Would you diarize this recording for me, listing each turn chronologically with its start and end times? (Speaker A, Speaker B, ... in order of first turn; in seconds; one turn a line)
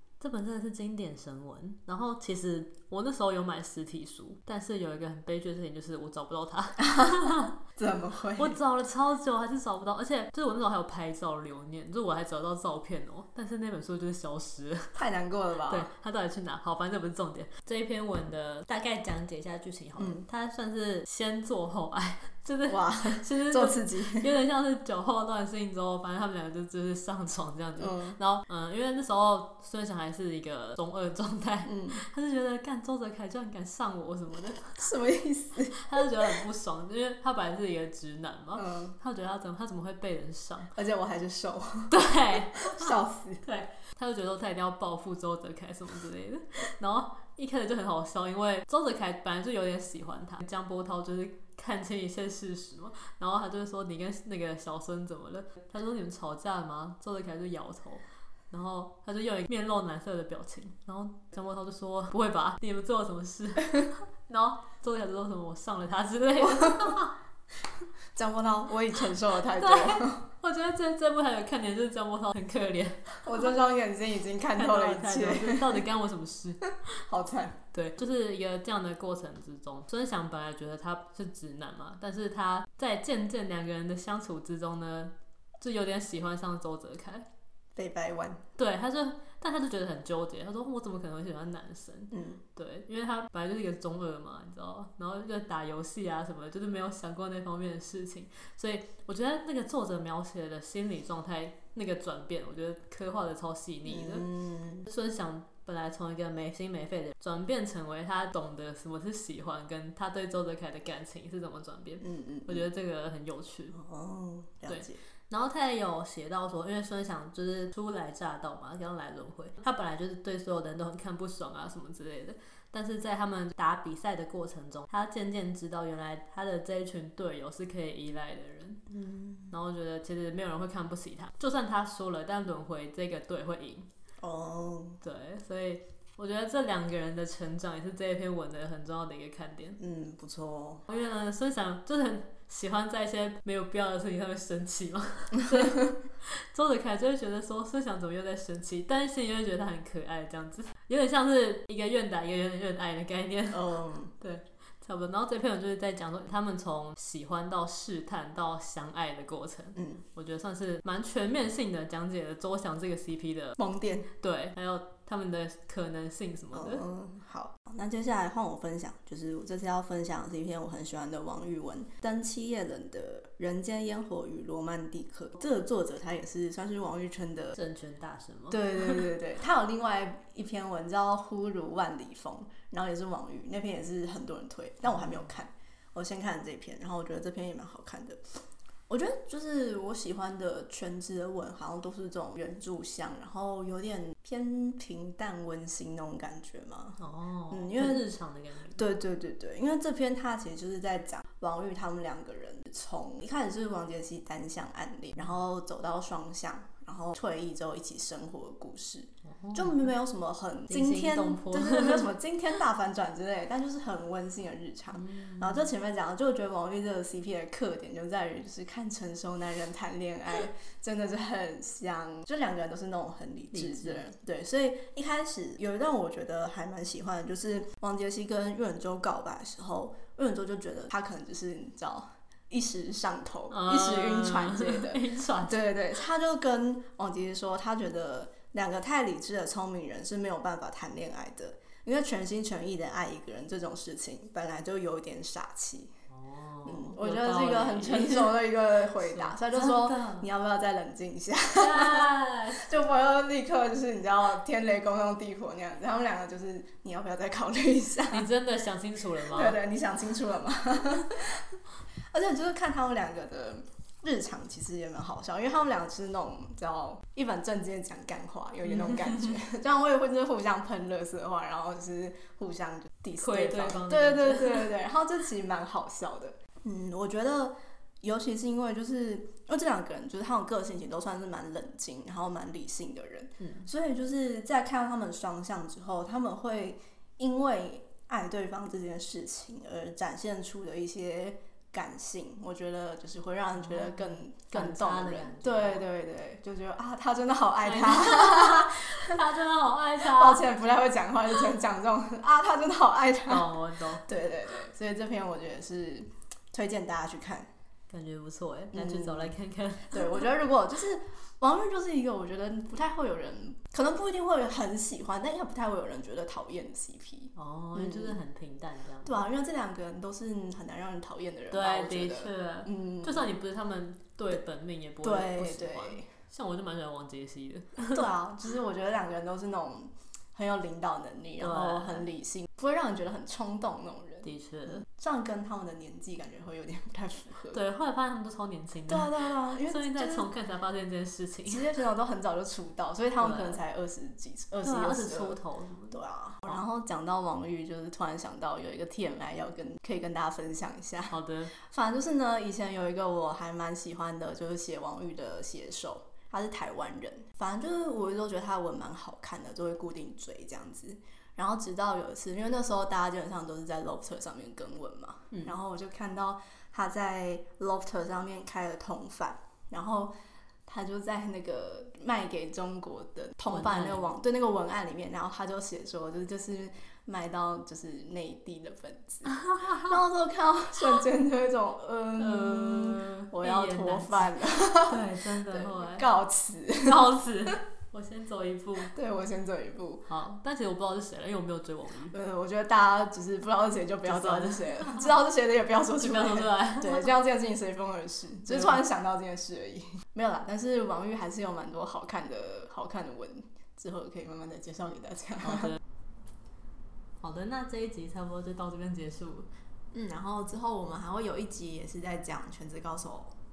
Speaker A: 0.2-7.5
Speaker B: 6.8-8.6
Speaker A: 8.4-15.0
Speaker B: 15.0-15.9
Speaker A: 15.7-34.8
Speaker B: 20.0-20.2
Speaker B: 22.7-24.3
Speaker B: 27.8-28.2
Speaker B: 31.6-32.0
Speaker B: 34.8-36.3
Speaker A: 35.8-40.7
Speaker B: 38.6-39.0
Speaker B: 40.8-41.9
Speaker A: 41.9-67.2
Speaker B: 42.6-43.4
Speaker B: 66.6-66.9
Speaker B: 68.2-70.2
Speaker A: 69.5-73.2
Speaker B: 73.2-75.8
Speaker A: 74.5-76.7
Speaker B: 77.1-77.6
Speaker A: 77.7-87.3
Speaker B: 87.8-88.4
Speaker A: 88.6-104.3
Speaker B: 92.1-92.4
Speaker B: 103.9-104.9
Speaker A: 104.9-113.8
Speaker B: 112.0-112.6
Speaker B: 113.7-115.0
Speaker A: 114.7-128.9
Speaker B: 128.9-129.5
Speaker A: 129.5-133.9
Speaker B: 134.2-135.0
Speaker A: 135.0-139.8
Speaker B: 139.8-140.8
Speaker A: 140.9-163.6
Speaker B: 145.4-145.9
Speaker B: 153.5-154.1
Speaker B: 159.8-160.0
Speaker B: 163.6-164.1
Speaker A: 164.2-166.8
Speaker B: 166.5-177.6
Speaker A: 177.6-179.1
Speaker B: 178.5-188.2
Speaker B: 188.9-197.0
Speaker A: 197.0-198.8
Speaker B: 197.5-198.1
Speaker B: 198.8-245.9
Speaker A: 209.3-209.9
Speaker A: 210.7-212.1
Speaker A: 214.9-215.7
Speaker A: 223.5-224.0
Speaker A: 233.5-235.6
Speaker A: 246.1-248.4
Speaker B: 246.7-258.3
Speaker A: 249.0-250.3
Speaker A: 251.5-252.7
Speaker A: 258.1-259.6
Speaker B: 259.3-261.6
Speaker B: 262.1-299.2
Speaker A: 273.2-274.7
Speaker A: 283.4-283.7
Speaker A: 293.6-295.8
Speaker A: 297.6-300.4
Speaker B: 300.0-307.5
Speaker A: 303.3-304.1
Speaker A: 307.9-310.2
Speaker B: 308.7-309.3
Speaker B: 309.9-318.2
Speaker A: 317.4-319.2
Speaker B: 319.1-323.4
Speaker A: 321.5-328.0
Speaker B: 325.0-326.1
Speaker B: 327.9-337.6
Speaker A: 331.4-332.1
Speaker A: 334.2-334.8
Speaker A: 337.5-341.6
Speaker B: 338.9-340.3
Speaker B: 341.5-345.4
Speaker A: 343.2-343.6
Speaker A: 344.6-346.0
Speaker B: 345.9-370.1
Speaker A: 351.1-351.5
Speaker B: 370.7-387.5
Speaker A: 373.5-374.1
Speaker A: 379.4-379.9
Speaker A: 382.2-386.1
Speaker A: 386.8-388.9
Speaker B: 388.8-390.1
Speaker A: 390.1-392.1
Speaker B: 392.1-405.8
Speaker A: 394.1-395.1
Speaker A: 396.0-397.1
Speaker A: 407.2-409.5
Speaker B: 409.9-413.3